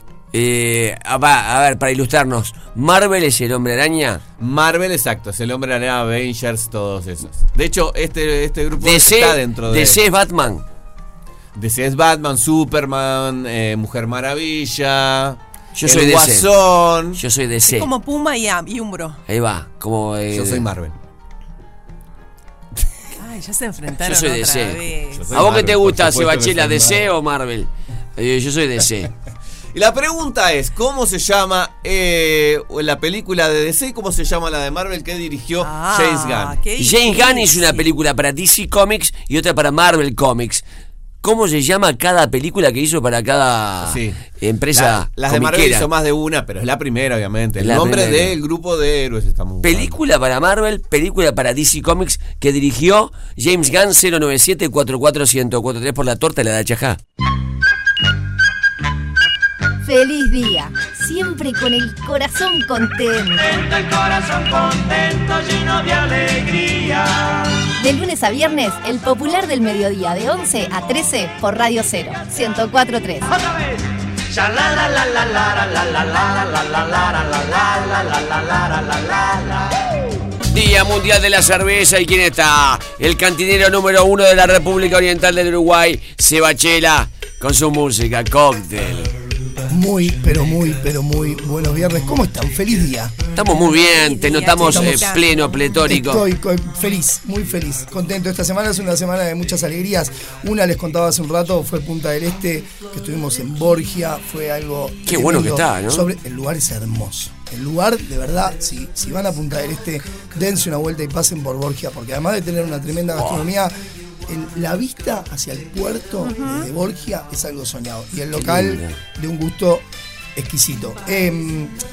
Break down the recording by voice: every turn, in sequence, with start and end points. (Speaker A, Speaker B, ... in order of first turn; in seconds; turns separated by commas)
Speaker A: 0.3-4.2, Speaker B: 4.4-10.0, Speaker A: 8.8-10.6, Speaker B: 11.5-17.2, Speaker A: 15.7-16.5, Speaker A: 17.1-17.9, Speaker C: 17.6-19.2, Speaker A: 19.3-20.6, Speaker B: 20.3-20.9, Speaker C: 23.2-25.3, Speaker A: 24.0-24.8, Speaker B: 25.1-27.1, Speaker A: 25.3-29.1, Speaker B: 29.7-36.6, Speaker C: 35.6-37.9, Speaker A: 36.8-40.6, Speaker A: 41.2-45.9, Speaker B: 43.8-44.2, Speaker B: 44.7-50.0, Speaker A: 47.6-48.3, Speaker A: 49.6-57.0, Speaker D: 59.8-63.6, Speaker E: 63.4-67.3, Speaker D: 67.8-73.3, Speaker A: 80.5-89.1, Speaker F: 89.7-93.2, Speaker A: 93.3-96.2, Speaker C: 93.7-95.2, Speaker F: 94.6-95.0, Speaker F: 95.7-113.7, Speaker A: 105.0-106.1, Speaker A: 113.1-113.5, Speaker F: 114.3-119.8, Speaker C: 116.2-116.7, Speaker A: 118.3-119.0, Speaker F: 120.3-121.7